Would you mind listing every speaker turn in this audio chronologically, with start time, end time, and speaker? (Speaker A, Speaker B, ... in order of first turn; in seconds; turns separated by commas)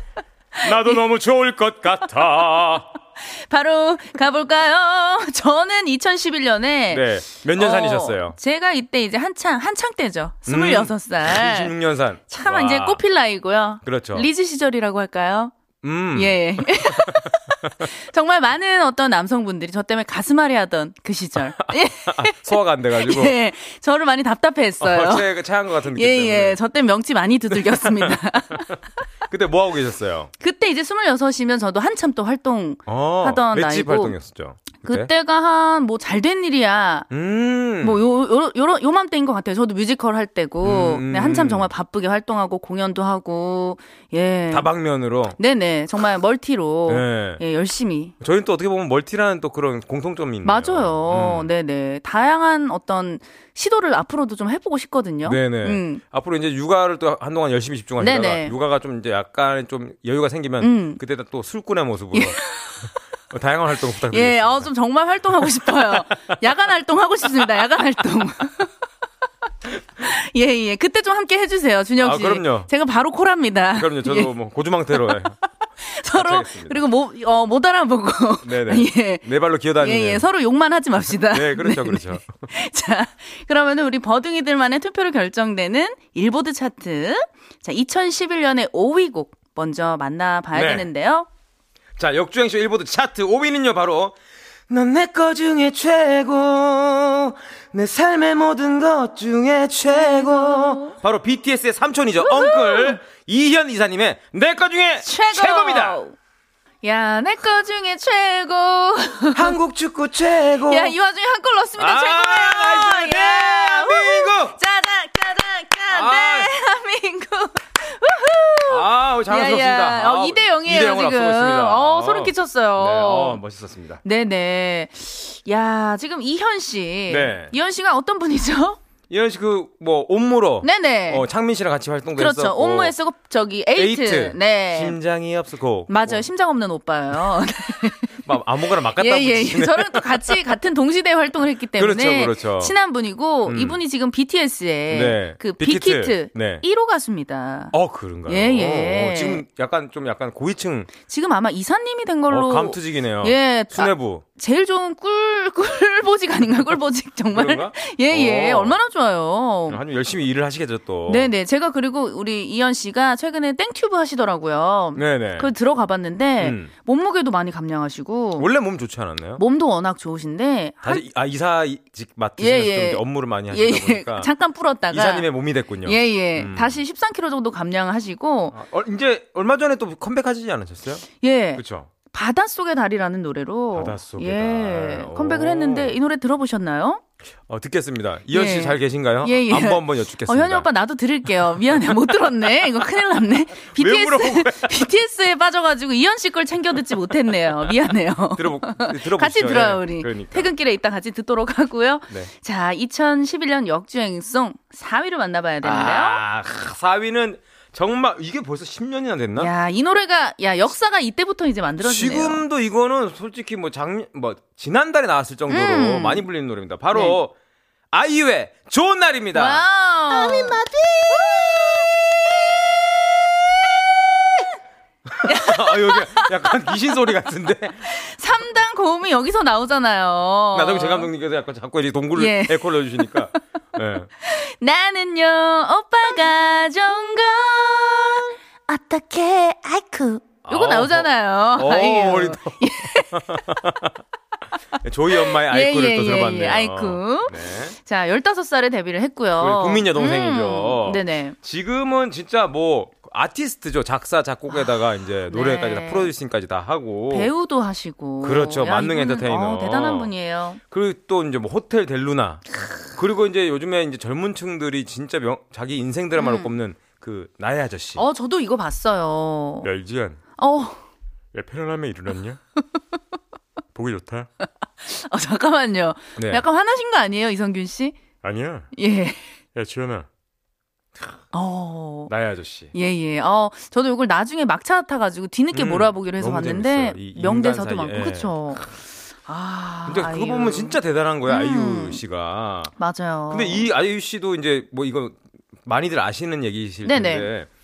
Speaker A: 0.6-2.9, Speaker B: 3.3-11.7, Speaker A: 6.9-8.4, Speaker A: 10.5-13.0, Speaker B: 12.3-15.5, Speaker A: 13.8-14.3, Speaker A: 15.8-17.3, Speaker B: 16.1-25.3, Speaker A: 21.6-23.4, Speaker A: 24.8-26.6, Speaker B: 25.9-28.8, Speaker A: 27.5-28.8, Speaker A: 29.3-30.3, Speaker B: 30.4-34.2, Speaker A: 32.9-35.1, Speaker B: 34.8-37.1, Speaker A: 37.1-38.0, Speaker B: 37.8-44.7, Speaker A: 40.6-41.7, Speaker A: 44.5-45.4, Speaker B: 45.4-48.1, Speaker A: 46.9-47.4, Speaker A: 48.2-51.5, Speaker B: 50.4-56.0, Speaker A: 55.2-62.4, Speaker B: 58.0-58.5, Speaker B: 60.6-61.0, Speaker B: 62.1-62.9, Speaker A: 63.3-64.7, Speaker B: 64.1-68.7, Speaker A: 65.6-66.0, Speaker B: 70.0-74.3, Speaker A: 72.0-72.7, Speaker A: 73.7-75.3, Speaker B: 74.9-79.2, Speaker A: 76.1-76.8, Speaker A: 78.4-80.3, Speaker B: 79.8-91.3, Speaker A: 81.3-82.3, Speaker A: 90.5-90.9, Speaker A: 92.0-94.2, Speaker A: 94.7-106.0, Speaker B: 99.9-101.0, Speaker B: 102.2-103.0, Speaker B: 105.0-106.2, Speaker B: 106.8-109.6, Speaker A: 109.3-111.0, Speaker B: 110.7-123.4, Speaker A: 111.8-114.6, Speaker A: 115.9-116.5, Speaker A: 118.7-124.0, Speaker B: 124.0-128.8, Speaker A: 127.1-127.5, Speaker A: 129.1-132.9, Speaker B: 130.6-131.3, Speaker B: 132.2-135.0, Speaker A: 133.8-136.3, Speaker B: 135.9-138.2, Speaker A: 138.2-140.4, Speaker B: 138.9-147.7, Speaker A: 141.8-142.8, Speaker A: 143.5-143.8, Speaker A: 144.9-146.6, Speaker A: 147.7-150.9, Speaker B: 148.3-149.4, Speaker B: 151.1-159.8, Speaker A: 152.3-154.2, Speaker A: 157.3-158.8, Speaker A: 159.7-161.3, Speaker B: 161.1-168.5, Speaker A: 165.0-165.5, Speaker A: 166.4-166.7, Speaker A: 168.4-169.4, Speaker B: 169.4-171.1, Speaker A: 170.8-174.3, Speaker B: 172.4-175.3, Speaker A: 174.9-176.8, Speaker B: 175.8-178.6, Speaker A: 178.5-181.9, Speaker B: 181.2-187.0, Speaker A: 183.7-186.0, Speaker A: 187.5-190.7, Speaker B: 188.3-206.2, Speaker A: 193.7-194.9, Speaker A: 198.4-200.5, Speaker A: 205.6-209.5, Speaker B: 209.4-212.4, Speaker A: 211.8-217.3, Speaker B: 215.5-216.2, Speaker A: 217.9-222.3, Speaker B: 219.3-220.6, Speaker B: 221.2-221.8, Speaker B: 224.2-224.5, Speaker A: 225.1-227.9, Speaker B: 225.2-226.5, Speaker B: 227.9-231.1, Speaker A: 230.5-234.1, Speaker B: 232.2-233.4, Speaker B: 234.2-243.4, Speaker A: 240.5-244.0, Speaker A: 244.8-247.8, Speaker B: 245.1-251.3, Speaker A: 249.4-257.3, Speaker B: 255.3-256.1, Speaker B: 257.1-260.6, Speaker A: 258.2-260.1, Speaker A: 260.7-268.0, Speaker B: 266.2-266.5, Speaker B: 268.0-269.7, Speaker A: 269.6-270.2, Speaker B: 270.4-270.8, Speaker A: 271.3-272.4, Speaker A: 273.8-274.3, Speaker B: 274.8-278.0, Speaker A: 276.2-276.4, Speaker A: 278.2-278.7, Speaker B: 278.7-279.3, Speaker A: 279.6-280.1, Speaker B: 281.3-282.1, Speaker A: 282.1-282.7, Speaker B: 282.7-288.6, Speaker A: 285.5-288.4, Speaker B: 289.3-292.0, Speaker A: 289.9-292.7, Speaker B: 292.8-293.7, Speaker A: 293.3-297.5, Speaker B: 296.9-297.3